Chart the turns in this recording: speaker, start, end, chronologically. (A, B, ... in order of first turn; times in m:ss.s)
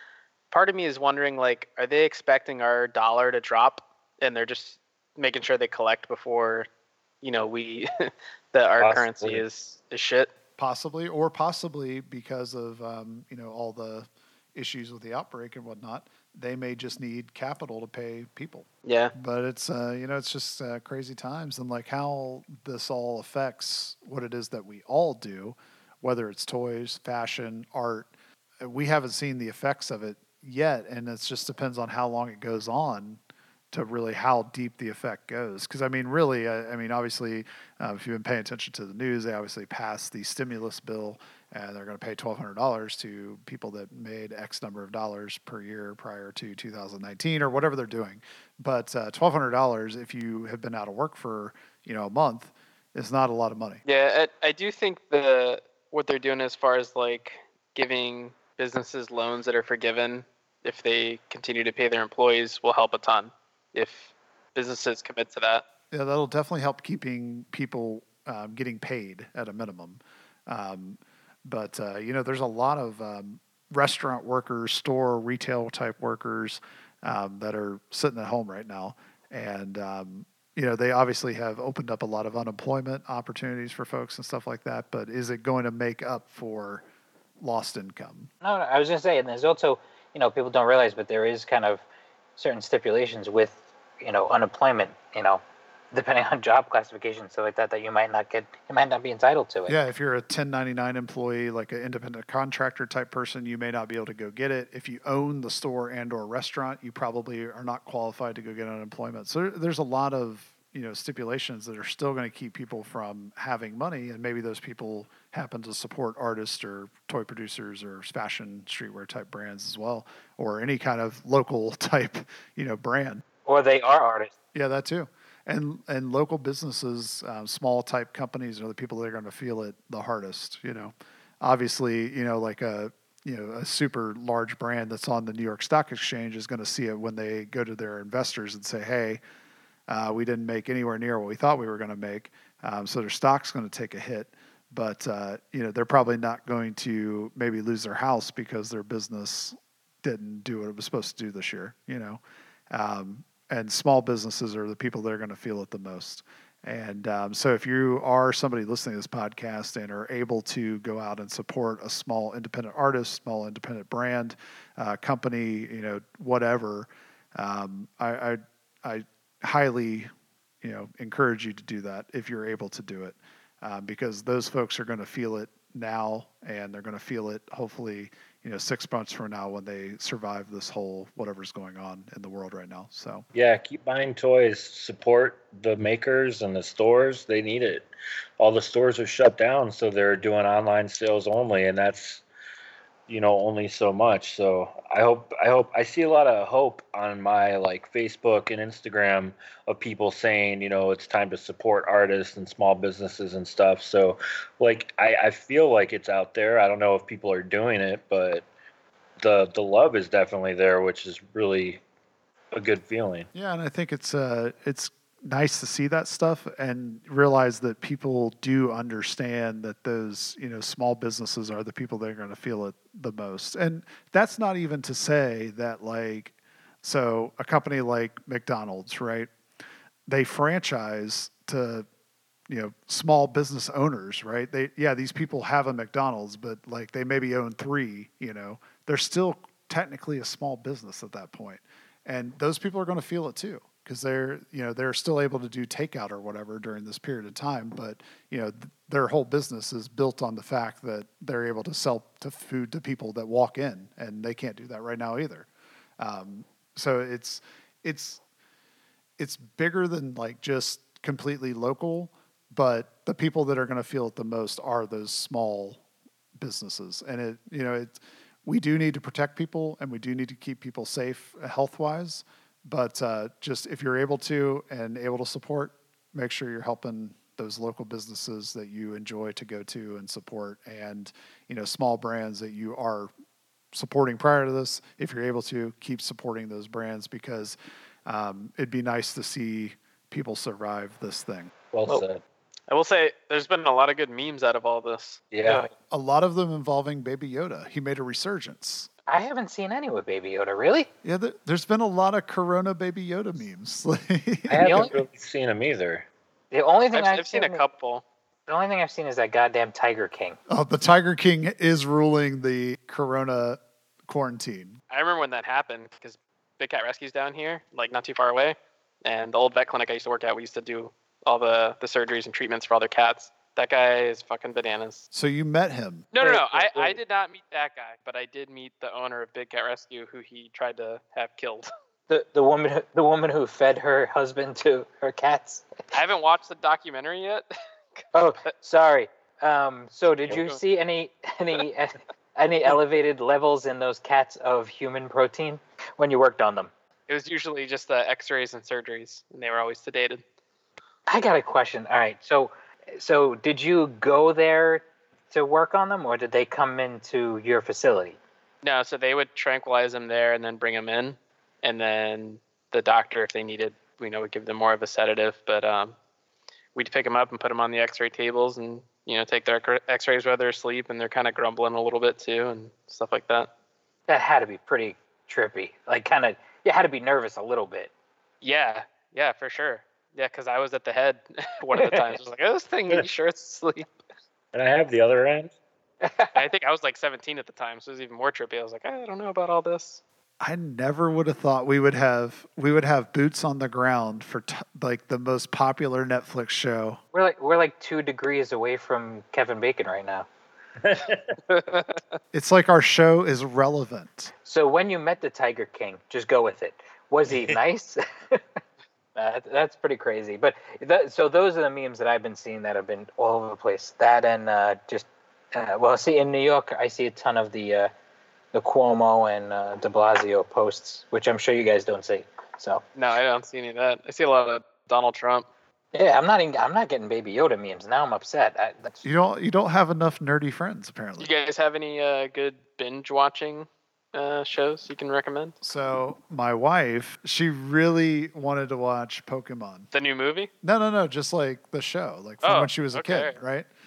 0:00.5-0:06.7 A
0:07.2-0:10.3 A
0:08.8-0:09.4 B
0:10.6-0:28.1 C
0:18.8-0:19.1 A
0:28.6-0:33.2 C
0:33.7-0:53.8 C
0:53.8-1:05.6 A
1:05.9-1:26.8 C
1:27.4-1:28.3 C
1:28.4-1:31.8 D
1:32.4-1:35.4 D
1:35.9-1:39.8 D
1:39.7-2:03.2 C
2:03.4-2:04.3 D
2:04.5-2:19.2 C
2:19.9-2:50.1 C
2:50.6-3:03.2 C
3:03.3-3:07.8 B
3:08.4-3:12.2 B
3:13.1-3:28.4 B
3:29.2-3:31.8 B
3:32.5-3:33.3 B
3:33.3-3:49.3 C
3:50.1-3:51.8 C
3:52.5-4:15.5 C
4:16.0-4:18.2 C
4:19.2-4:25.8 C
4:26.4-4:43.1 C
4:43.7-4:51.5 C
4:51.7-4:52.2 B
4:52.7-4:55.2 A
4:55.3-4:55.6 B
4:55.4-4:55.7 D
4:55.9-4:58.9 C
4:59.1-5:00.9 D
5:01.0-5:04.9 C
5:04.5-5:04.9 D
5:04.5-5:06.0 B
5:06.5-5:07.6 D
5:06.9-5:08.0 A
5:08.5-5:10.4 D
5:10.5-5:14.8 C
5:14.9-5:25.0 A
5:25.1-5:26.1 C
5:26.1-5:31.7 A
5:26.2-5:26.9 D
5:32.1-5:35.6 D
5:35.9-5:38.0 A
5:38.1-5:46.7 D
5:40.3-5:40.6 A
5:47.1-5:50.2 A
5:51.1-5:58.2 D
5:58.6-6:05.9 A
6:06.7-6:13.5 A
6:14.1-6:17.9 D
6:18.4-6:23.9 A
6:21.7-6:22.1 D
6:24.5-6:25.5 B
6:26.0-6:26.4 D
6:26.3-6:30.0 A
6:30.4-6:37.0 C
6:37.1-6:40.2 D
6:40.8-6:41.3 B
6:41.5-6:42.1 A
6:42.3-6:44.3 C
6:44.4-6:48.4 D
6:49.2-6:57.9 D
6:58.5-7:02.8 D
7:02.9-7:05.4 A
7:05.9-7:09.0 D
7:09.0-7:11.3 C
7:11.2-7:15.5 A
7:15.6-7:19.9 C
7:19.9-7:20.5 A
7:20.6-7:23.7 C
7:22.4-7:23.4 A